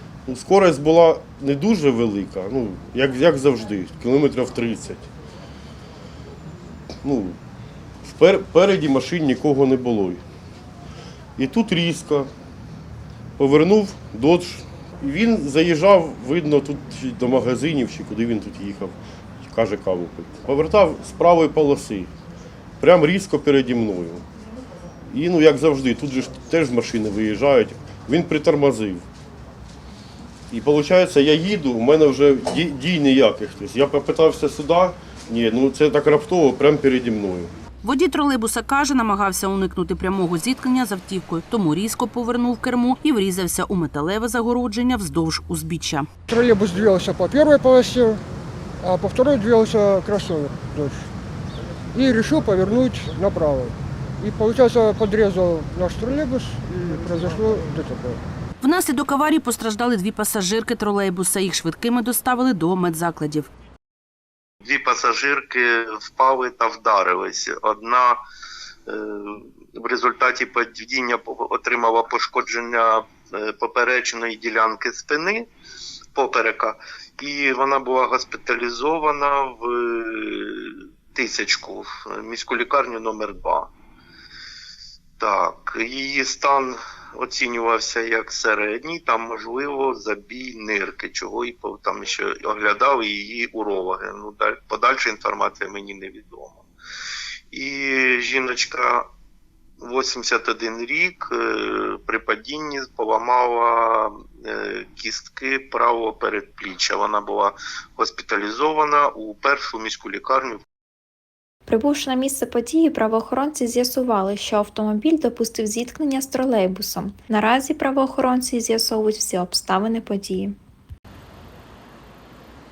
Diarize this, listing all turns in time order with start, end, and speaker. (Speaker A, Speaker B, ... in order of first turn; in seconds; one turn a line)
Speaker A: 0.3-5.1
Speaker A: 7.0-7.4
Speaker A: 8.0-10.2
Speaker A: 11.4-12.3
Speaker A: 13.4-22.1
Speaker A: 22.8-24.2
Speaker A: 25.1-29.0
Speaker A: 30.5-37.5
Speaker B: 37.8-46.1
Speaker C: 46.3-48.2
Speaker C: 48.8-51.1
Speaker C: 51.9-58.2
Speaker B: 58.6-63.5
Speaker D: 64.6-68.2
Speaker D: 68.9-75.5
Speaker D: 76.1-83.7
Speaker D: 85.2-96.6
Speaker D: 97.5-99.1
Speaker D: 99.8-110.6
Speaker E: 111.7-120.5